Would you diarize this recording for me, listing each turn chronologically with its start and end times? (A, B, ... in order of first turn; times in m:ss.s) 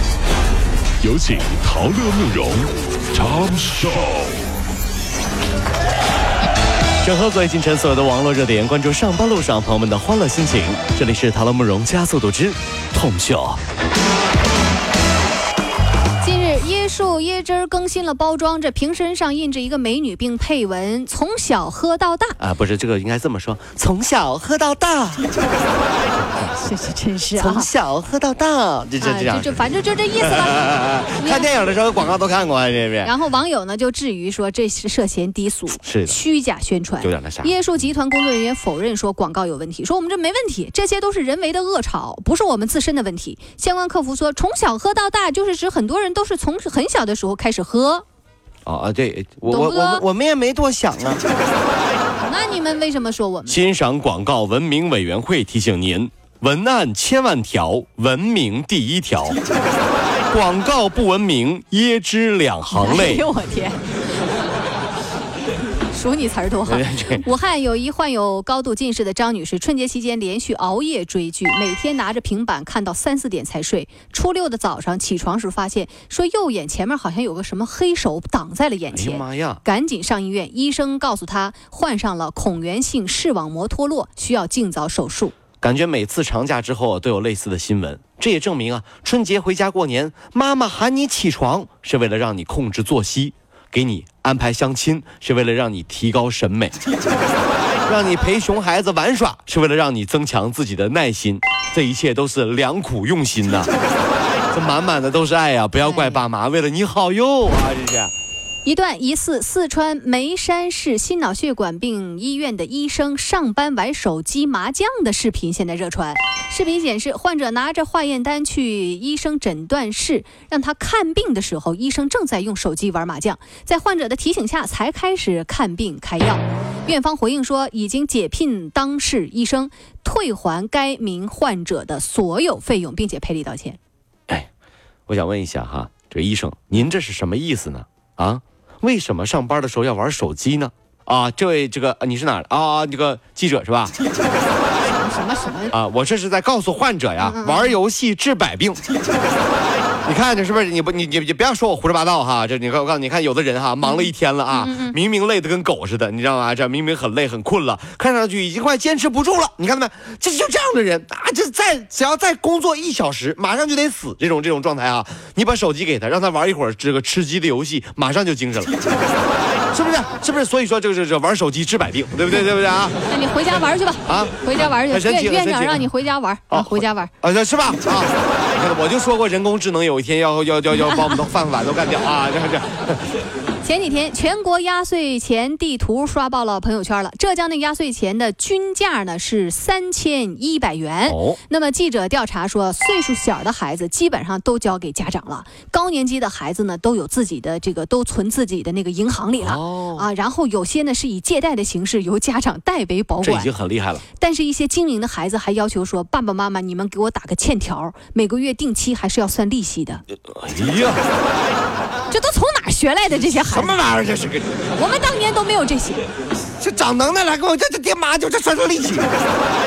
0:01.0-0:04.4 A
0:07.0-0:13.6 B
0:16.2-0:22.4 C
0:22.4-0:25.3 B
0:26.4-0:27.7 C
0:27.3-0:33.1 B
0:29.0-0:31.5 C
0:33.0-0:48.0 C
0:35.8-0:36.2 B
0:37.0-0:37.5 B
0:48.6-0:51.2 B
0:49.5-0:50.0 C
0:52.2-0:53.6 C
0:53.5-0:59.4 B
1:00.3-1:03.2 B
1:02.7-1:03.8 C
1:05.9-1:25.3 C
1:06.7-1:07.2 B
1:18.9-1:19.6 B
1:25.6-1:36.8 B
1:37.8-1:43.7 B
1:44.5-1:48.1 B
1:45.8-1:46.2 C
1:48.6-2:13.8 C
2:15.1-2:24.0 B
2:24.8-2:25.7 C
2:25.7-2:28.8 B
2:27.2-2:27.8 C
2:30.0-2:48.7 B
2:34.5-2:35.0 C
2:49.7-2:53.0 B
2:53.1-2:57.1 C
2:54.0-2:55.9 B
2:56.5-3:03.1 B
3:03.6-3:23.5 C
3:11.0-3:11.4 B
3:19.4-3:20.1 B
3:23.2-3:24.0 B
3:24.2-3:30.0 C
3:30.3-3:31.0 B
3:32.1-3:33.8 C
3:33.2-3:34.5 B
3:34.7-3:36.1 C
3:36.6-3:39.1 B